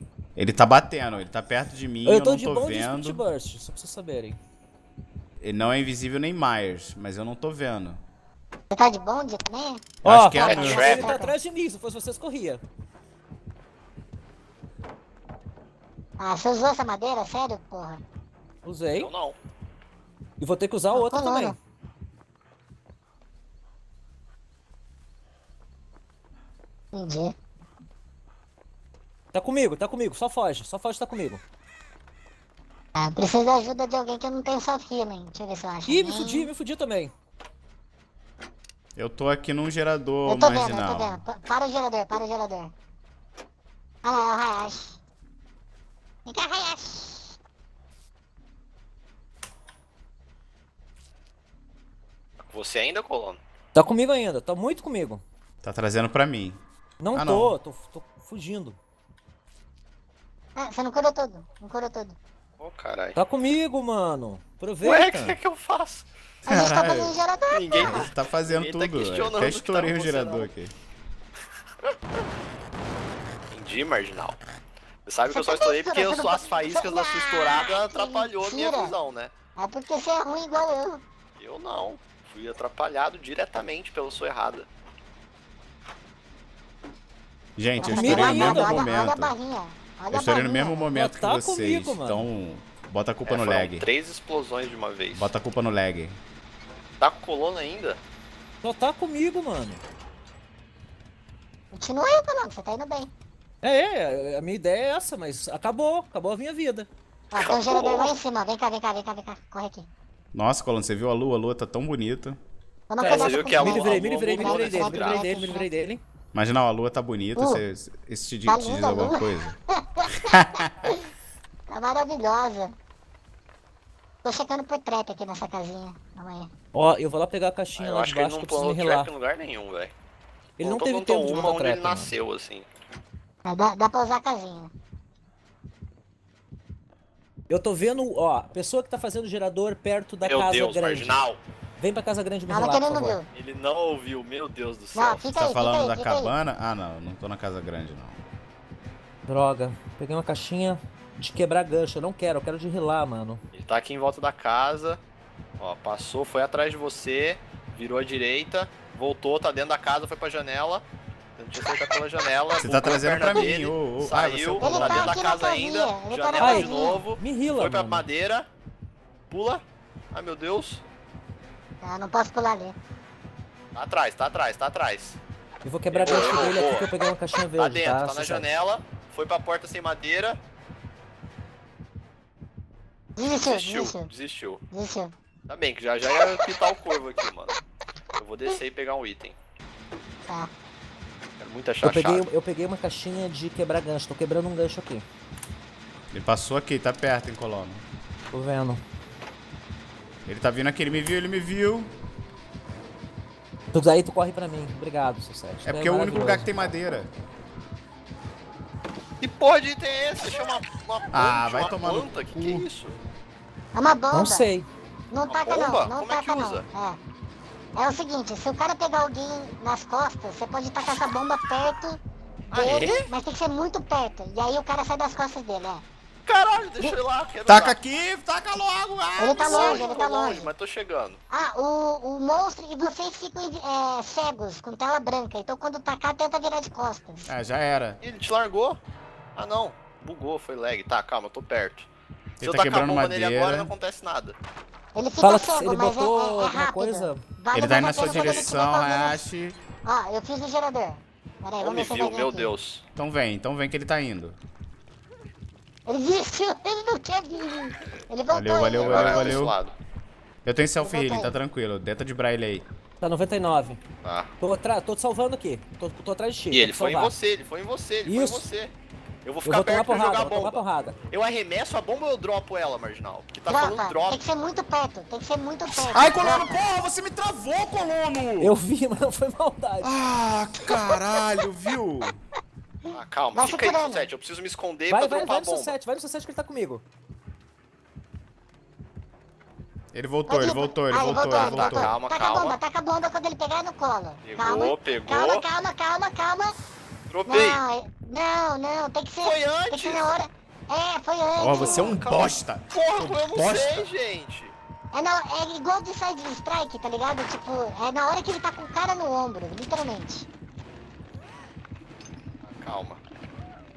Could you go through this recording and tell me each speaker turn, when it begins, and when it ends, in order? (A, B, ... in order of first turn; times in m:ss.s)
0:00.4-0:03.2 A
0:02.0-0:04.4 B
0:05.4-0:08.0 A
0:08.7-0:09.9 C
0:10.0-0:11.2 A
0:10.0-0:12.6 B
0:10.4-0:11.4 C
0:10.4-0:11.2 D
0:16.2-0:18.0 C
0:18.6-0:19.1 B
0:19.0-0:19.4 D
0:20.4-0:21.6 B
0:20.9-0:21.6 C
0:26.9-0:27.3 C
0:29.3-0:31.4 B
0:33.0-0:36.5 C
0:35.9-0:37.1 B
0:39.0-0:41.2 A
0:40.3-0:42.7 C
0:44.0-0:45.0 C
0:46.3-0:47.4 C
0:52.5-0:53.4 D
0:53.8-0:55.2 B
0:55.6-0:56.6 A
0:57.0-0:58.8 B
0:57.1-0:57.6 A
1:00.6-1:02.2 C
1:02.6-1:03.2 D
1:03.2-1:05.4 B
1:04.8-1:06.1 D
1:06.5-1:08.1 C
1:06.5-1:07.1 A
1:07.5-1:10.5 D
1:07.8-1:10.7 A
1:13.5-1:14.4 D
1:15.1-1:19.3 D
1:15.3-1:19.0 C
1:19.6-1:21.0 C
1:21.4-1:24.7 D
1:27.6-1:29.3 A
1:27.8-1:30.9 C
1:27.8-1:28.9 B
1:30.1-1:33.9 A
1:30.9-1:32.3 B
1:33.3-1:35.3 D
1:35.1-1:36.2 A
1:37.0-1:38.0 D
1:38.6-1:39.8 B
1:41.7-1:43.1 C
1:43.6-1:46.9 B
1:47.3-1:49.9 C
1:47.4-1:48.2 D
1:50.3-1:52.4 A
1:52.9-1:55.7 C
1:53.0-1:55.4 D
1:53.0-1:56.0 B
1:56.3-1:59.6 A
1:57.4-1:57.6 C
1:58.5-2:00.2 C
2:00.2-2:00.7 A
2:01.7-2:02.7 C
2:04.2-2:06.5 C
2:06.7-2:09.1 B
2:07.8-2:09.9 D
2:10.6-2:12.2 B
2:10.6-2:12.7 D
2:13.5-2:14.7 C
2:17.5-2:21.2 B
2:20.2-2:21.4 D
2:21.8-2:23.2 B
2:22.5-2:23.3 C
2:23.3-2:25.2 D
2:25.0-2:26.3 C
2:25.4-2:28.2 A
2:29.3-2:33.4 B
2:33.5-2:35.0 D
2:35.6-2:40.8 D
2:41.4-2:48.5 D
2:42.6-2:45.2 A
2:44.6-2:47.0 C
2:46.4-2:48.1 B
2:49.3-2:50.8 D
2:51.8-2:52.8 C
2:53.8-2:55.2 D
2:55.6-2:58.5 B
2:55.9-2:56.9 D
2:57.6-3:00.4 D
3:03.2-3:04.1 C
3:03.4-3:04.6 D
3:04.7-3:05.1 C
3:05.5-3:07.6 D
3:08.2-3:09.4 D
3:10.2-3:10.5 C
3:11.4-3:12.2 D
3:11.8-3:15.0 B
3:16.1-3:17.8 A
3:18.3-3:18.8 B
3:20.3-3:21.9 A
3:23.7-3:26.6 B
3:25.6-3:27.1 A
3:29.2-3:33.0 D
3:31.1-3:32.6 A
3:33.7-3:34.5 C
3:34.1-3:34.7 B
3:35.1-3:37.0 C
3:35.3-3:36.6 D
3:37.8-3:42.0 C
3:42.5-3:43.1 D
3:42.5-3:45.8 C
3:46.3-3:47.8 D
3:47.5-3:50.0 A
3:49.2-3:50.5 C
3:49.4-3:51.2 D
3:51.3-3:57.3 C
3:57.3-3:58.0 A
3:58.0-3:58.8 D
3:59.4-4:01.9 D
4:02.4-4:03.7 A
4:02.4-4:04.4 D
4:05.0-4:09.2 C
4:05.2-4:07.2 B
4:07.5-4:09.6 A
4:09.8-4:12.5 C
4:11.6-4:12.8 D
4:13.0-4:14.4 A
4:15.9-4:19.4 C
4:18.3-4:19.6 A
4:18.8-4:19.7 D
4:20.4-4:22.7 A
4:20.8-4:21.4 C
4:23.0-4:23.8 B
4:24.0-4:24.3 D
4:24.4-4:27.1 B
4:26.5-4:28.7 D
4:28.1-4:28.5 B
4:29.2-4:34.2 D
4:29.4-4:31.0 B
4:33.5-4:36.6 C
4:35.7-4:38.5 A
4:38.4-4:39.9 B
4:39.8-4:42.2 A
4:42.9-4:45.8 D
4:43.3-4:44.1 C
4:44.9-4:46.8 B
4:49.9-4:52.0 A
4:50.3-4:56.6 C
4:51.1-4:52.6 D
4:54.2-4:55.4 D
4:57.1-4:57.6 D
4:57.3-5:02.0 C
4:59.2-5:00.1 D
5:01.4-5:03.9 A
5:01.4-5:04.6 D
5:04.9-5:10.3 C
5:12.4-5:13.0 D